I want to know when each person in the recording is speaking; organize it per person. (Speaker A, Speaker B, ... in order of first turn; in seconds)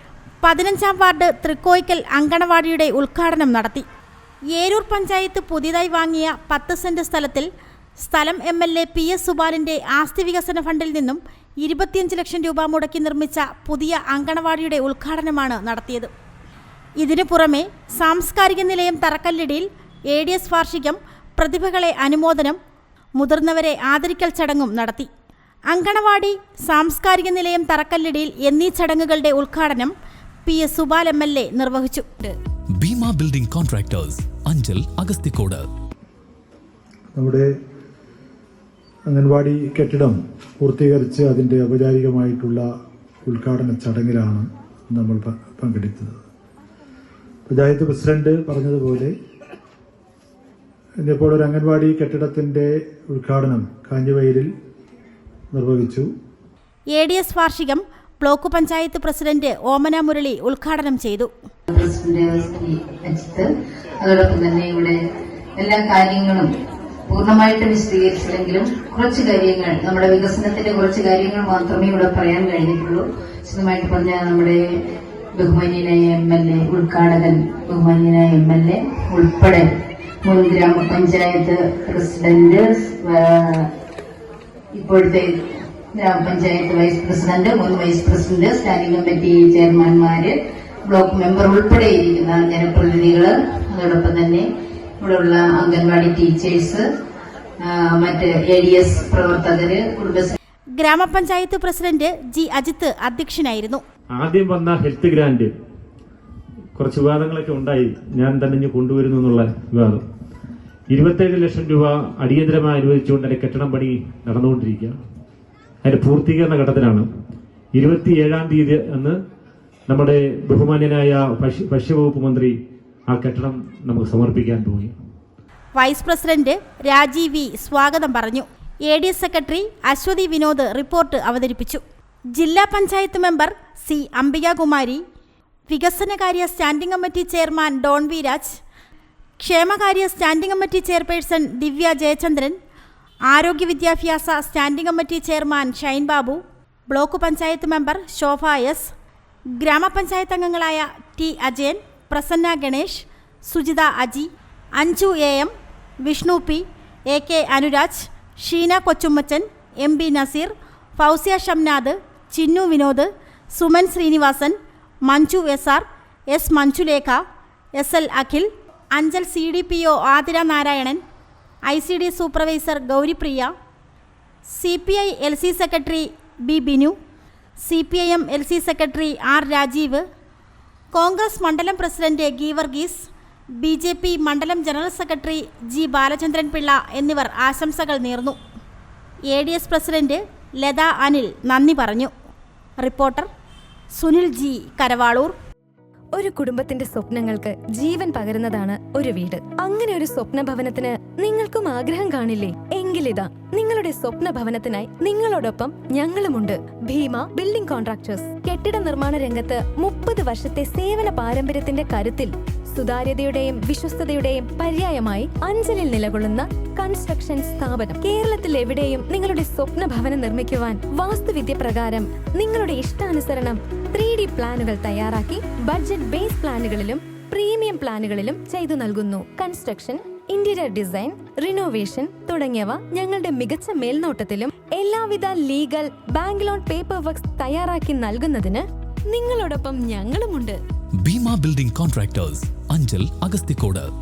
Speaker A: 0.4-3.9, 4.5-7.5, 8.0-16.1, 17.0-22.6, 23.2-25.1, 25.7-29.9, 30.5-32.3, 56.9-61.3, 100.8-103.8, 125.8-131.8, 132.3-135.0, 135.7-138.6, 139.4-142.6, 143.3-148.9, 149.6-155.5, 156.0-167.2, 167.8-171.0, 171.7-173.5, 174.5-176.9, 177.6-180.0, 180.9-183.1, 183.6-188.4, 189.3-192.1, 192.8-193.3, 193.9-195.3
Speaker B: 32.8-35.7, 241.0-243.9
Speaker C: 37.1-37.5, 39.1-42.6, 43.2-46.2, 47.5-49.1, 51.0-54.5, 55.5-56.1
Speaker D: 61.7-65.0, 65.6-66.5, 67.1-74.8, 75.3-83.7, 84.7-94.5, 95.0-96.9, 97.6-100.3
Speaker E: 104.2-105.5, 106.8-110.0, 110.9-115.0, 115.8-117.1, 117.8-119.2, 119.9-122.5, 123.1-124.9
Speaker F: 196.2-240.6